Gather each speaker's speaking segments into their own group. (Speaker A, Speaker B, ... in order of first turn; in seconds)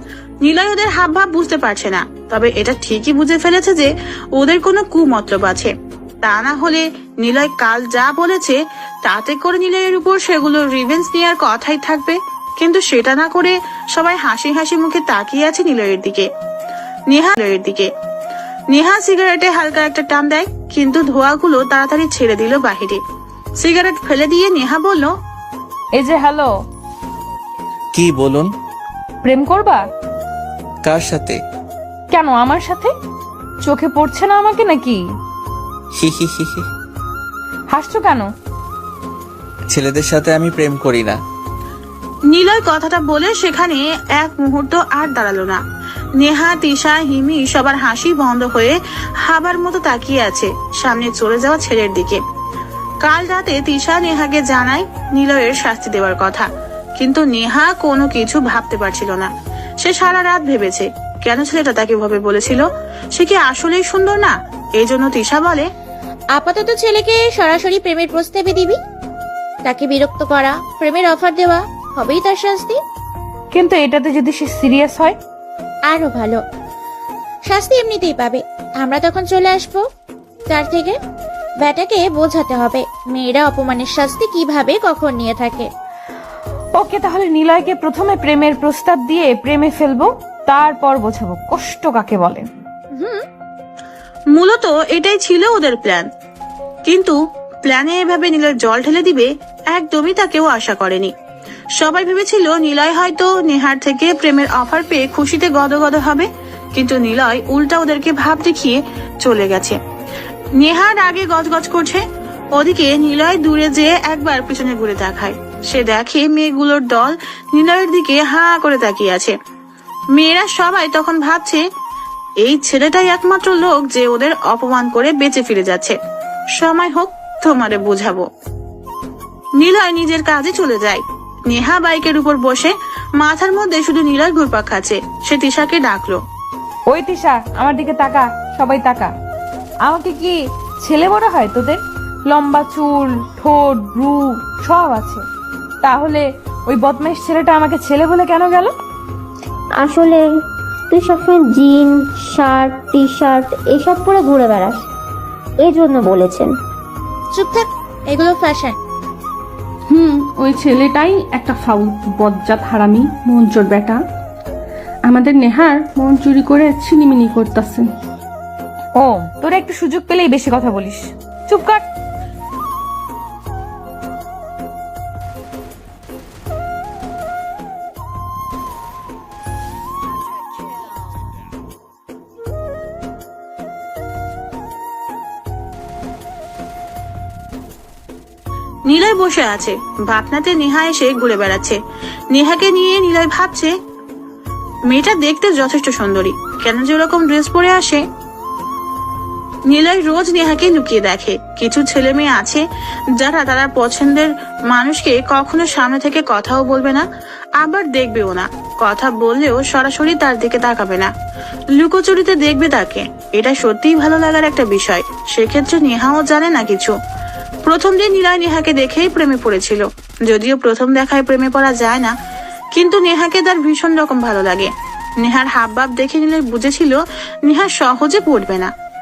Speaker A: 0.4-16.3, 17.1-17.9, 18.7-23.0, 23.6-25.1, 42.3-45.6, 46.2-52.2, 53.0-65.7, 94.3-96.1, 96.8-101.1, 101.8-109.8, 110.6-112.0, 112.5-119.3, 120.1-121.6, 122.4-126.0, 126.6-128.2, 129.6-136.2, 188.9-191.8, 192.3-193.7, 194.9-198.0, 199.7-202.6, 203.2-207.1, 207.6-211.1, 211.8-216.9, 217.6-222.1, 222.7-228.7
Speaker B: 25.9-26.5, 29.2-29.8, 32.1-32.9, 33.6-35.0, 37.7-38.3, 73.5-75.2, 86.7-92.5, 136.9-139.1, 139.8-145.2, 145.8-148.7, 169.0-171.8
Speaker C: 27.9-28.5, 30.8-31.4, 35.9-36.6, 39.7-41.2
Speaker D: 66.3-68.8, 69.6-72.8, 75.9-76.4, 77.5-79.8, 80.5-81.0, 81.6-85.7, 92.9-93.2, 157.3-158.8
Speaker E: 149.8-150.3, 150.9-154.9, 155.6-156.6
Speaker F: 159.9-164.0, 165.0-167.9